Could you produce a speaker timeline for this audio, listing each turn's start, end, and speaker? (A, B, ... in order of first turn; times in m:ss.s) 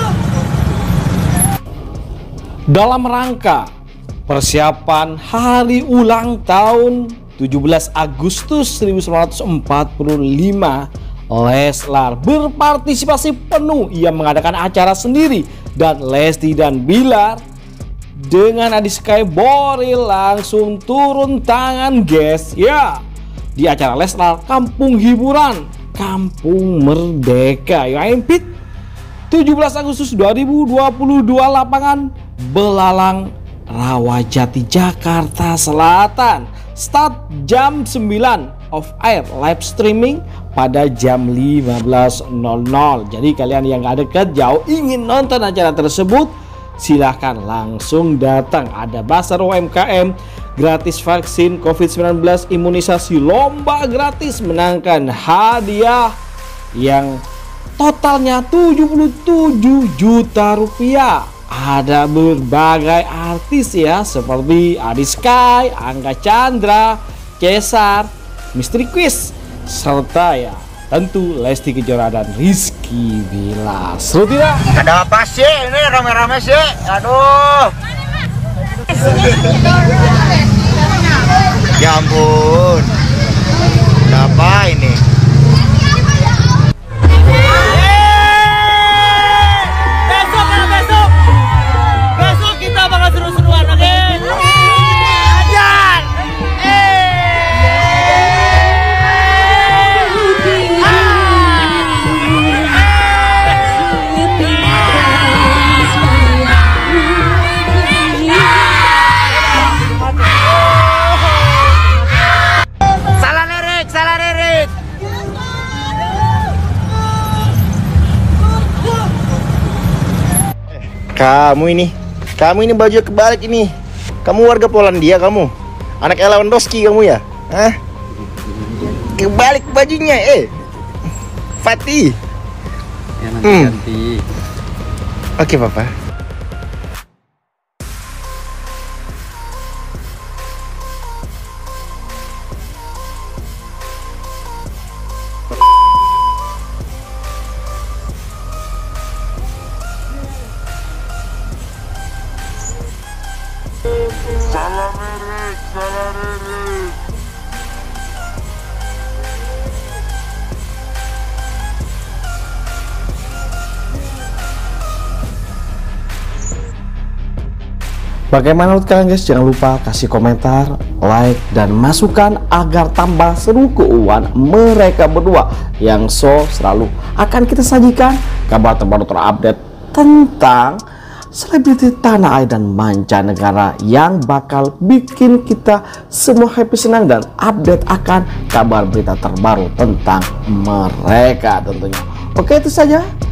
0:02.7-0:03.7 A
0:04.3-0:17.4 A
0:18.2-0:23.0 A
0:23.6-0:28.5 A
0:29.3-0:56.1 A
0:56.7-0:57.2 A
0:57.8-1:14.7 A
1:14.7-1:17.7 B
1:21.8-1:22.9 B
1:24.1-1:25.0 B
1:30.3-1:31.0 A
1:30.3-1:31.1 C
1:32.2-1:33.6 C
1:32.3-1:34.4 A
1:35.2-1:36.0 C
1:44.4-1:44.8 C
1:48.0-1:48.4 A
1:53.2-1:54.7 C
2:00.7-2:03.7 B
2:04.2-2:07.8 B
2:09.0-2:10.5 B
2:11.6-2:12.2 B
2:13.2-2:14.2 C
2:13.4-2:13.8 B
2:15.4-2:15.9 B
2:48.3-3:00.8 A
3:01.3-3:13.1 A